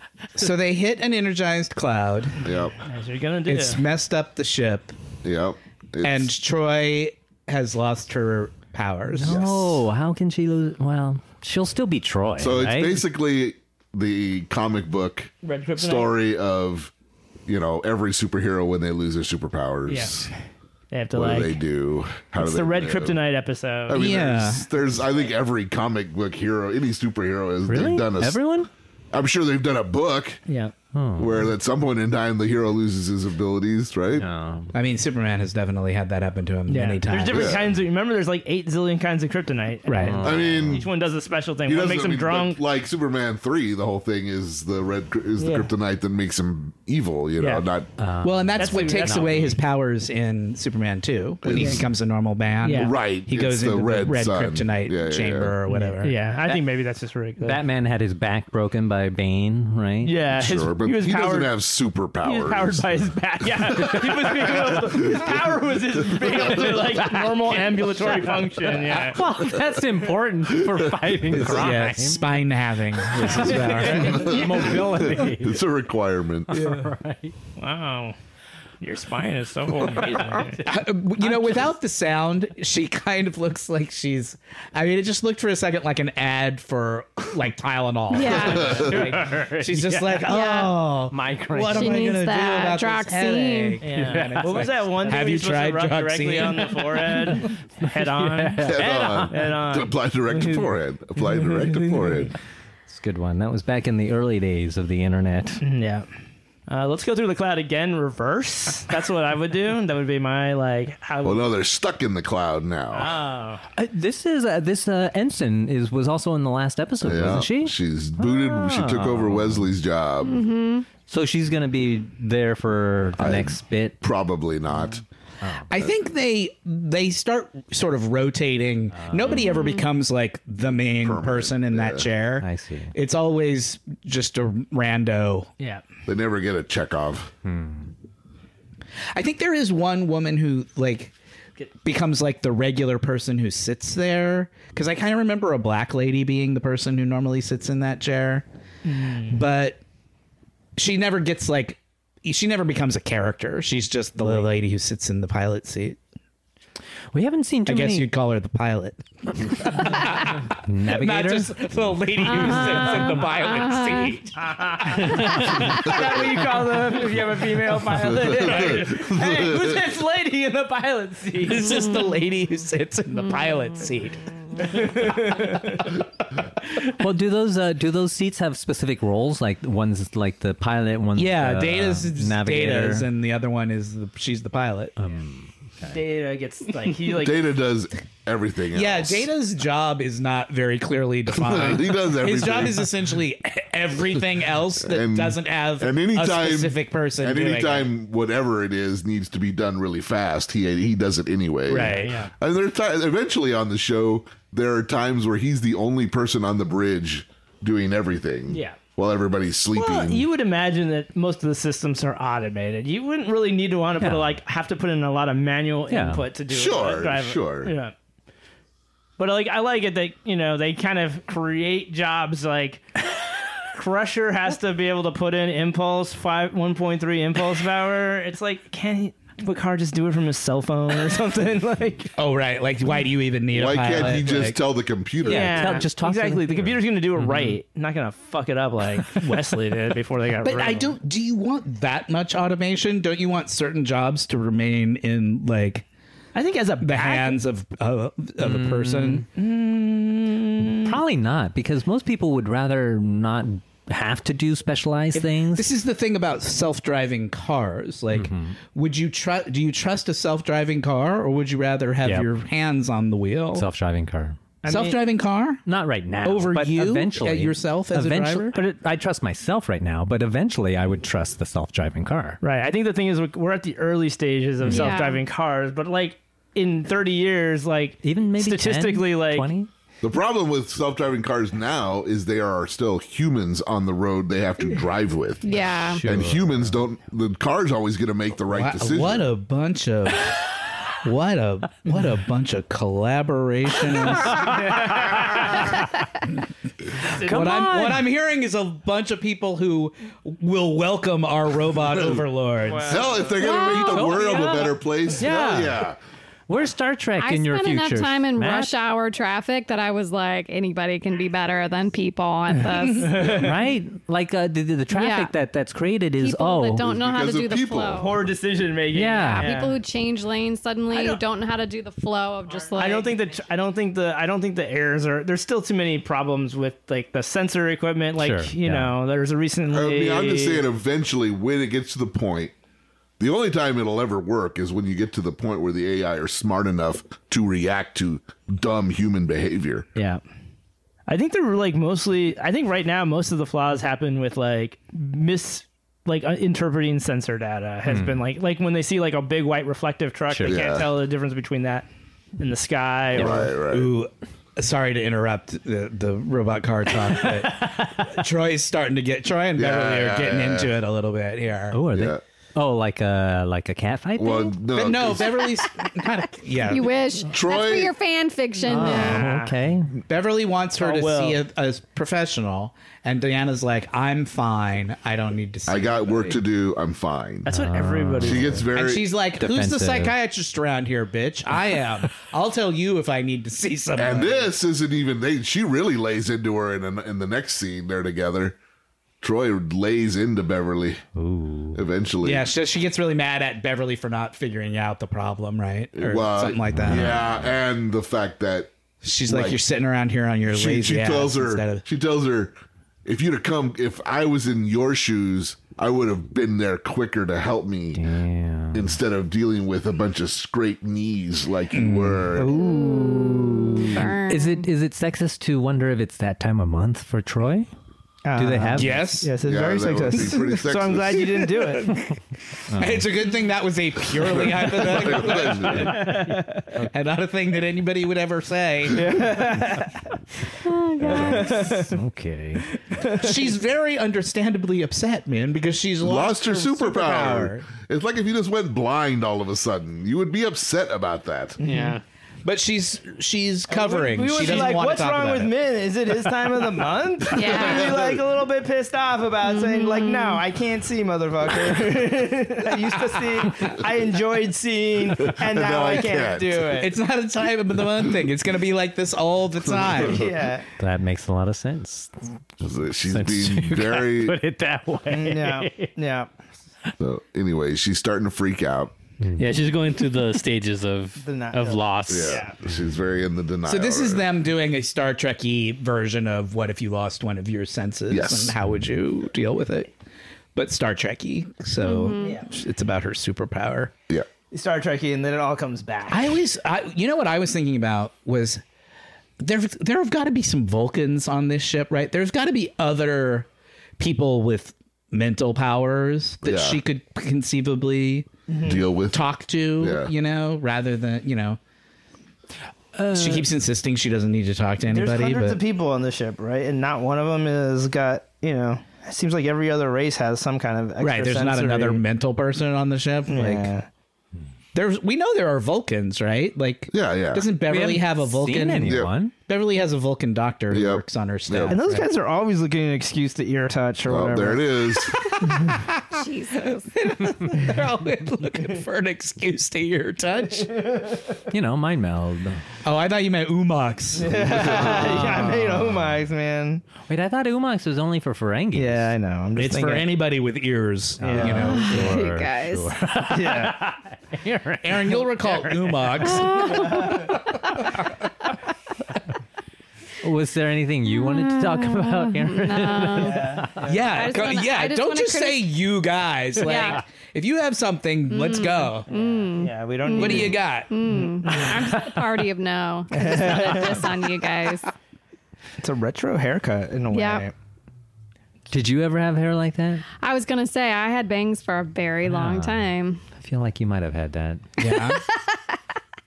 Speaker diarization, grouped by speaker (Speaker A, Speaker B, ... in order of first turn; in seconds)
Speaker A: 0.4-2.5, 3.5-5.0, 6.0-9.8, 23.9-24.7, 34.7-37.6, 39.9-40.2, 48.2-56.2, 71.3-74.4, 80.7-97.1, 125.7-135.5, 139.1-141.1, 141.8-148.4, 149.3-149.8, 150.8-156.0, 157.7-166.0, 171.4-174.7, 181.2-185.0, 188.7-197.9, 232.2-234.6, 240.4-245.8, 246.8-249.3, 255.2-263.7, 264.7-265.6, 266.2-268.6, 288.5-290.4, 291.0-295.8, 296.9-303.0, 353.3-361.8, 364.7-366.9, 370.1-376.4, 378.7-384.5, 392.2-397.2, 399.0-401.8, 411.7-412.4, 418.8-419.3, 422.8-426.1, 426.9-429.3, 433.1-437.7, 442.4-445.6, 456.8-460.3, 473.7-479.9, 480.6-483.9, 486.1-488.6, 489.4-493.5, 494.0-498.3, 499.1-501.6, 503.0-505.6, 511.0-513.7, 514.7-522.1, 525.4-530.8, 532.9-535.2, 539.6-542.2, 544.8-548.0, 553.8-559.1, 560.1-562.0, 574.8-575.2
Speaker B: 2.4-2.8, 5.2-6.3, 9.2-9.5, 12.4-16.9, 17.5-20.3, 21.1-23.2, 23.9-28.4, 29.1-30.4, 31.2-34.3, 37.3-37.7, 40.2-40.9, 41.7-47.9, 51.4-51.9, 52.8-55.5, 60.4-63.1, 63.8-65.3, 66.0-66.2, 73.9-76.6, 88.5-88.9, 98.6-102.3, 111.2-113.2, 117.0-120.4, 123.2-125.0, 131.0-132.1, 136.1-137.3, 168.0-169.8, 187.1-189.3, 191.3-192.9, 194.8-210.3, 216.5-217.7, 233.5-235.8, 280.0-289.3, 302.9-306.0, 316.8-318.3, 329.7-332.5, 333.2-339.9, 350.5-350.9, 353.1-353.9, 359.6-360.7, 361.9-362.2, 364.2-365.4, 367.3-367.9, 375.7-377.5, 378.2-379.1, 384.0-388.6, 389.2-391.0, 391.7-392.5, 395.9-398.7, 399.3-399.6, 400.5-408.1, 408.7-412.5, 419.4-421.4, 424.2-426.0, 436.0-441.6, 447.5-448.2, 455.3-456.8, 459.7-460.1, 462.6-464.4, 467.0-468.9, 472.1-474.2, 478.1-478.6, 496.4-496.8, 498.6-499.3, 499.8-500.1, 516.9-517.5, 518.9-519.1, 520.7-521.8, 524.1-525.2, 534.5-535.0
Speaker C: 2.8-3.9, 15.4-16.1, 19.9-20.4, 20.9-21.6, 22.4-24.1, 30.5-30.8, 36.7-42.6, 45.4-45.7, 47.4-47.6, 48.6-49.6, 51.5-51.8, 52.6-52.9, 55.7-57.6, 60.0-61.5, 62.2-69.2, 73.3-74.7, 77.6-78.2, 78.8-80.7, 88.5-90.1, 93.8-102.3, 105.6-106.1, 106.7-111.5, 112.9-113.6, 148.9-149.4, 154.2-154.5, 164.4-171.8, 174.6-175.9, 185.9-187.4, 201.7-202.3, 208.5-208.8, 209.7-217.9, 219.2-223.2, 223.7-232.1, 235.2-241.0, 246.3-247.4, 249.3-251.0, 264.6-265.0, 272.4-279.5, 294.5-295.4, 302.6-303.5, 312.9-313.6, 318.0-319.8, 320.9-321.2, 322.6-330.7, 340.0-340.2, 341.1-353.5, 368.8-369.6, 370.8-371.4, 377.4-378.7, 412.3-414.1, 418.2-422.0, 425.9-426.7, 428.9-429.9, 431.1-432.0, 432.8-433.5, 441.6-442.0, 443.7-456.9, 460.1-460.7, 465.1-466.3, 471.2-472.6, 482.2-482.5, 484.5-486.4, 498.5-498.9, 504.9-512.0, 513.3-513.9, 521.7-524.8, 530.6-531.3, 534.2-536.9, 538.8-540.1, 541.2-541.7, 543.3-543.9, 546.6-547.3, 553.2-554.2, 559.1-561.8, 563.1-564.1, 565.8-567.5
Speaker D: 9.2-13.0, 27.7-28.7, 30.9-31.3, 34.2-34.7, 40.0-40.8, 48.0-49.6, 57.4-60.1, 68.8-72.2, 74.2-75.6, 76.5-77.3, 91.2-92.0, 94.2-94.5, 98.5-98.8, 102.9-105.6, 113.8-119.7, 121.0-124.0, 125.4-125.7, 128.9-129.4, 132.4-132.9, 137.4-137.9, 157.1-158.0, 160.7-161.4, 177.0-183.1, 185.0-186.0, 214.0-214.3, 215.9-216.2, 235.4-236.8, 248.4-249.2, 250.8-255.7, 258.1-258.6, 263.6-264.4, 265.7-272.4, 274.7-274.9, 278.0-279.7, 286.0-286.8, 297.3-298.0, 304.0-304.6, 305.2-305.8, 306.5-308.7, 313.4-316.8, 318.9-319.5, 328.2-328.9, 347.9-348.2, 361.7-364.4, 368.7-369.9, 377.5-378.6, 379.4-380.1, 391.2-391.8, 396.7-397.2, 407.9-408.9, 414.3-417.7, 418.4-419.0, 422.7-423.1, 431.1-432.6, 460.8-462.1, 463.1-465.9, 517.7-519.3, 531.5-532.6, 535.2-535.5, 537.0-539.0, 541.2-543.6, 544.5-544.8, 550.2-553.6, 568.7-570.0, 572.3-574.6
Speaker E: 88.1-88.9, 90.3-90.7, 91.7-93.8, 120.2-120.9, 129.3-129.9, 162.2-164.1, 274.7-275.2, 285.4-286.0, 303.4-304.1, 307.2-313.3, 314.9-315.3, 316.2-318.1, 319.3-323.1, 366.6-369.3, 412.5-414.7, 430.6-431.6, 447.3-447.9, 449.5-450.4, 481.8-482.4, 526.1-526.9, 541.5-543.0, 546.2-547.3, 551.1-555.7, 556.6-557.0, 558.3-564.9, 567.1-567.5, 570.2-573.2, 574.9-575.8
Speaker F: 441.6-442.0, 469.4-472.5